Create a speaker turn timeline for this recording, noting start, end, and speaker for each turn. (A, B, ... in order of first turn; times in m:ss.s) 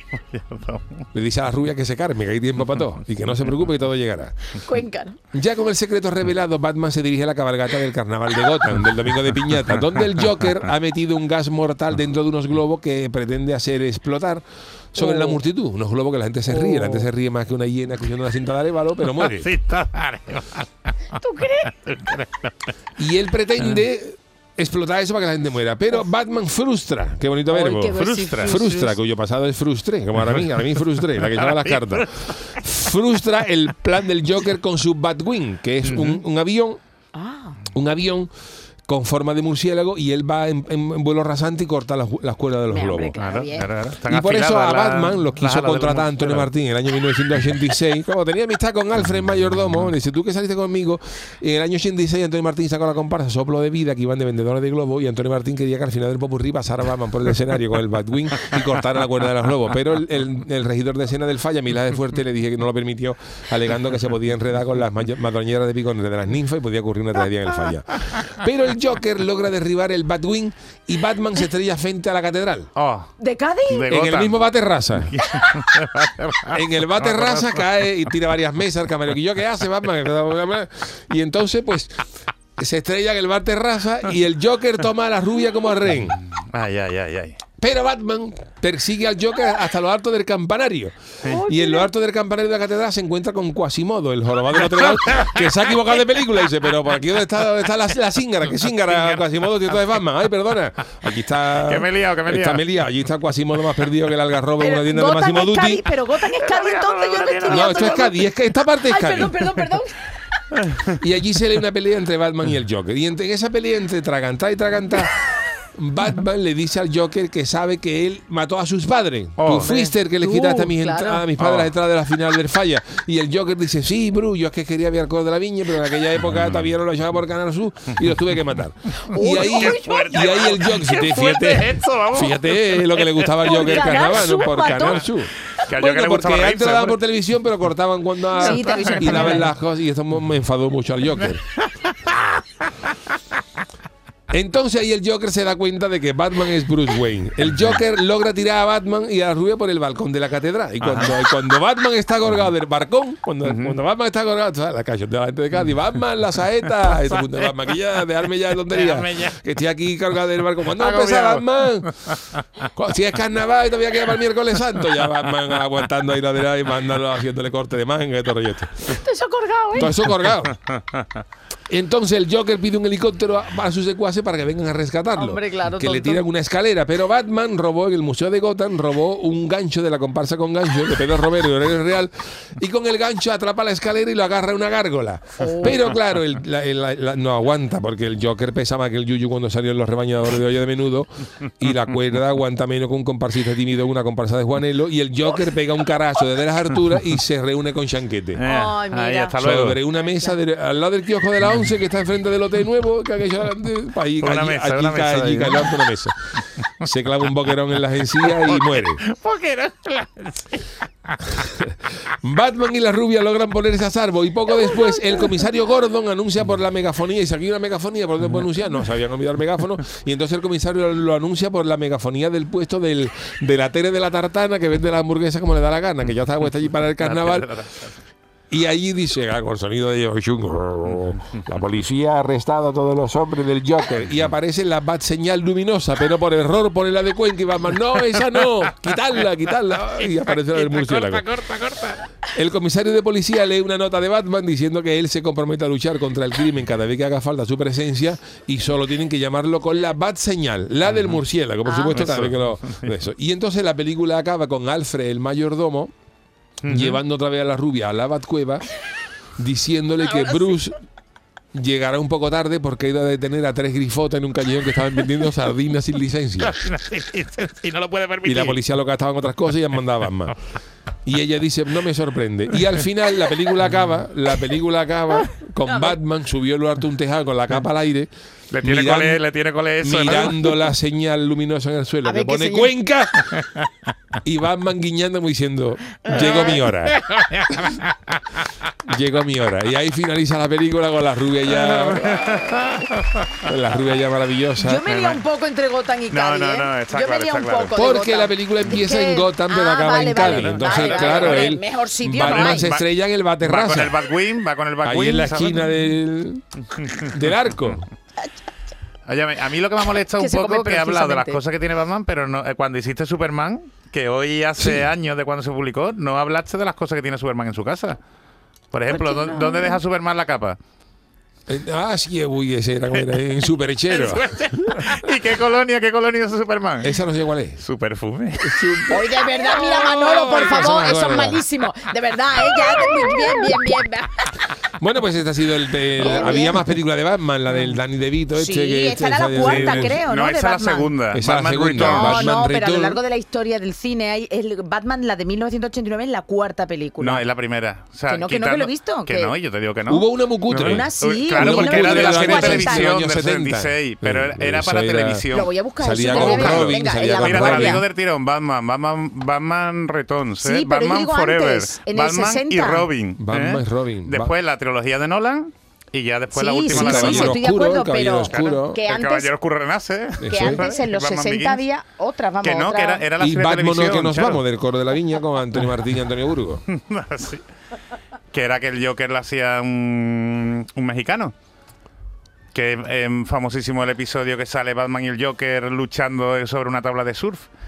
0:00.3-0:01.0 A
0:01.1-0:04.6 B
0:04.6-0:05.2 C
0:05.3-0:14.4 B
0:09.8-0:10.0 A
0:14.9-0:19.5 B
0:15.0-0:15.4 C
0:16.5-0:17.1 C
0:19.0-0:20.9 A
0:21.1-0:22.0 C
0:21.7-0:22.7 A
0:23.0-0:36.8 B
0:27.5-0:29.0 C
0:27.9-0:28.6 A
0:31.1-0:32.6 A
0:35.8-0:36.2 A
0:37.1-0:37.6 C
0:37.7-0:38.3 B
0:38.9-0:43.2 B
0:42.7-0:43.7 C
0:43.2-0:46.5 A
0:44.0-1:12.7 B
1:12.8-1:13.1 A
1:13.2-1:13.9 C
1:13.7-1:14.4 A
1:13.9-1:15.2 B
1:15.0-1:17.7 A
1:15.3-1:15.7 C
1:16.5-1:22.0 B
1:22.6-1:26.2 B
1:26.3-1:27.4 A
1:27.6-1:45.9 B
1:31.2-1:31.9 C
1:34.9-1:35.4 A
1:38.9-1:39.2 A
1:41.5-1:42.7 A
1:44.6-1:50.2 C
1:46.2-1:48.0 A
1:47.5-1:49.6 B
1:50.7-1:50.9 A
1:50.9-2:21.4 B
1:59.4-1:59.7 A
1:59.6-2:01.2 C
2:01.4-2:01.7 A
2:06.2-2:06.7 A
2:09.1-2:10.5 C
2:09.2-2:17.0 A
2:13.4-2:15.0 C
2:18.3-2:19.5 C
2:18.4-2:19.4 A
2:21.8-2:22.4 A
2:24.3-2:42.1 B
2:30.8-2:31.2 A
2:33.4-2:33.8 A
2:37.3-2:37.6 A
2:38.7-2:39.4 A
2:40.7-2:42.4 A
2:42.7-2:49.0 B
2:48.9-2:49.9 C
2:49.7-2:50.6 B
2:51.7-3:18.4 B
2:55.2-2:56.2 C
3:05.4-3:05.8 C
3:18.4-3:19.8 A
3:18.4-3:19.4 C
3:19.4-3:26.2 B
3:19.9-3:20.4 C
3:24.2-3:26.4 A
3:26.8-3:29.0 B
3:28.2-3:31.5 A
3:31.3-3:47.6 B
3:47.0-3:48.0 A
3:48.5-4:01.3 B
3:50.8-3:51.4 A
3:58.0-3:58.5 A
4:00.0-4:02.0 A
4:02.3-4:15.9 B
4:10.9-4:11.2 A
4:11.6-4:12.1 C
4:11.9-4:12.9 A
4:16.6-4:17.0 A
4:16.6-4:18.7 B
4:19.4-4:20.8 B
4:21.5-4:26.6 B
4:26.4-4:28.6 A
4:28.2-4:30.4 B
4:31.0-4:38.1 B
4:35.6-4:36.0 C
4:38.5-4:40.7 A
4:38.6-4:39.2 B
4:39.8-4:43.4 B
4:42.0-4:42.7 C
4:44.2-4:47.0 B
4:46.1-4:46.6 C
4:46.1-4:48.4 A
4:48.8-4:52.3 B
4:51.5-4:53.3 A
4:53.4-4:54.9 B
4:54.6-5:02.7 C
4:54.9-4:55.2 A
4:56.1-4:57.8 A
4:57.7-5:04.0 B
5:00.2-5:01.6 A
5:02.2-5:02.9 A
5:03.4-5:05.7 A
5:04.8-5:06.4 B
5:06.7-5:07.8 A
5:07.0-5:07.8 B
5:09.1-5:18.0 A
5:10.2-5:11.4 C
5:14.6-5:14.9 B
5:18.7-5:20.6 A
5:18.9-5:19.8 C
5:21.5-5:24.8 B
5:22.9-5:23.2 A
5:23.9-5:27.0 A
5:26.8-5:27.6 B
5:27.6-5:28.9 A
5:28.4-5:31.4 B
5:28.9-5:34.3 C
5:34.8-5:40.0 B
5:36.0-5:36.7 C
5:38.3-5:40.9 C
5:39.4-5:42.3 A
5:41.1-5:43.0 B
5:41.8-5:47.2 C
5:47.0-6:07.4 A
5:48.1-5:49.4 C
5:49.9-5:55.3 B
5:50.5-5:52.9 C
5:55.3-5:57.8 C
5:55.8-5:57.8 B
6:00.4-6:02.9 C
6:03.2-6:04.3 B
6:06.3-6:09.3 C
6:06.7-6:08.8 B
6:08.3-6:11.6 A
6:10.2-6:10.7 B
6:10.2-6:13.0 C
6:12.4-6:14.4 A
6:13.2-6:16.6 B
6:16.7-6:17.4 A
6:18.3-6:21.3 A
6:22.5-6:27.5 A